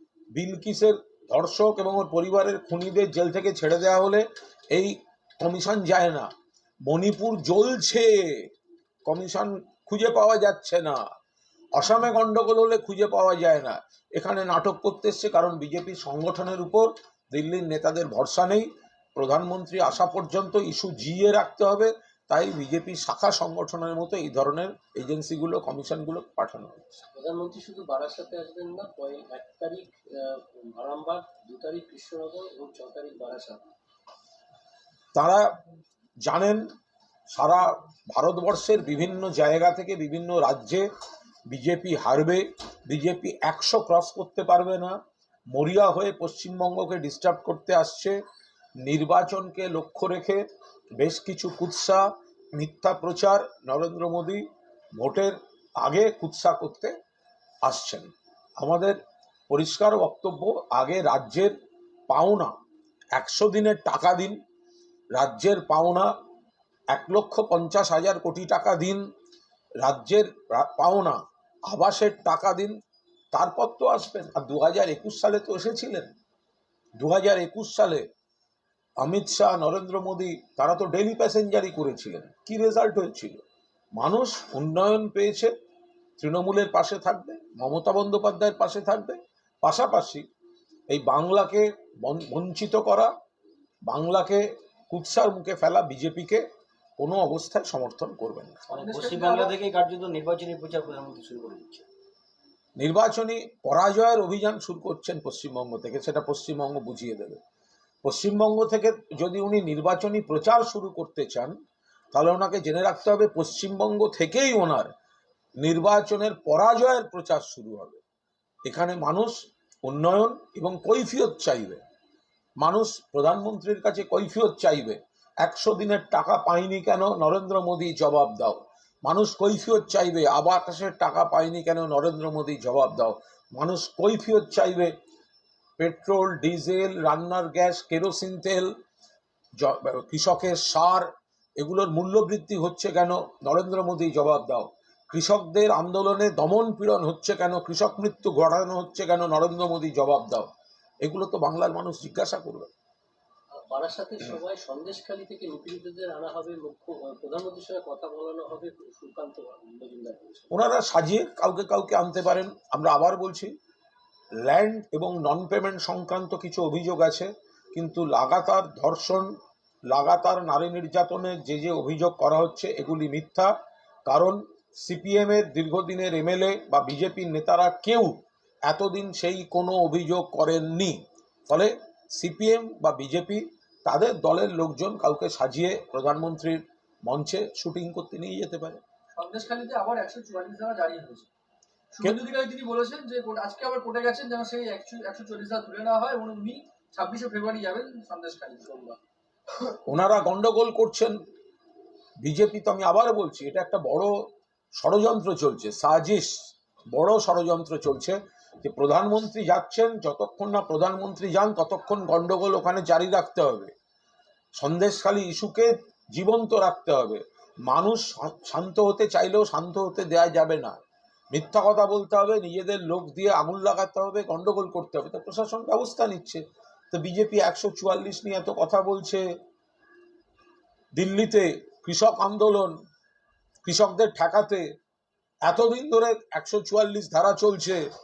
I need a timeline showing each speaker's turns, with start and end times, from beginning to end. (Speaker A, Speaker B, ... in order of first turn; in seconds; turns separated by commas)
Speaker A: 0.3-6.3, Speaker A: 6.9-8.5, Speaker A: 9.1-11.0, Speaker A: 11.8-27.0, Speaker B: 27.1-33.6, Speaker A: 35.1-35.5, Speaker A: 36.2-36.6, Speaker A: 37.3-40.9, Speaker A: 41.5-45.0, Speaker A: 45.5-48.2, Speaker A: 48.8-50.4, Speaker A: 51.0-54.4, Speaker A: 55.0-57.0, Speaker A: 57.6-61.5, Speaker A: 62.1-62.5, Speaker A: 63.1-64.4, Speaker A: 65.2-66.1, Speaker A: 66.9-69.0, Speaker A: 69.8-72.8, Speaker A: 73.3-76.1, Speaker A: 77.0-78.1, Speaker A: 79.0-83.4, Speaker A: 84.0-85.5, Speaker A: 86.2-90.2, Speaker A: 90.9-93.1, Speaker A: 93.9-96.5, Speaker A: 97.0-98.6, Speaker C: 98.7-101.9, Speaker D: 98.7-99.5, Speaker A: 102.8-107.4, Speaker A: 108.0-111.5, Speaker A: 112.1-114.9, Speaker A: 115.6-118.0, Speaker A: 118.7-121.8, Speaker A: 122.6-134.9, Speaker A: 135.8-138.7, Speaker A: 139.6-150.5, Speaker A: 151.0-152.7, Speaker B: 153.6-160.6, Speaker A: 160.5-163.5, Speaker A: 164.4-169.3, Speaker A: 169.9-173.5, Speaker A: 174.1-188.8, Speaker D: 189.2-191.3, Speaker D: 191.9-199.0, Speaker A: 199.9-201.2, Speaker A: 202.2-204.2, Speaker A: 204.8-213.7, Speaker A: 214.6-220.8, Speaker A: 221.3-229.2, Speaker A: 230.9-232.8, Speaker A: 233.6-234.7, Speaker A: 235.4-237.8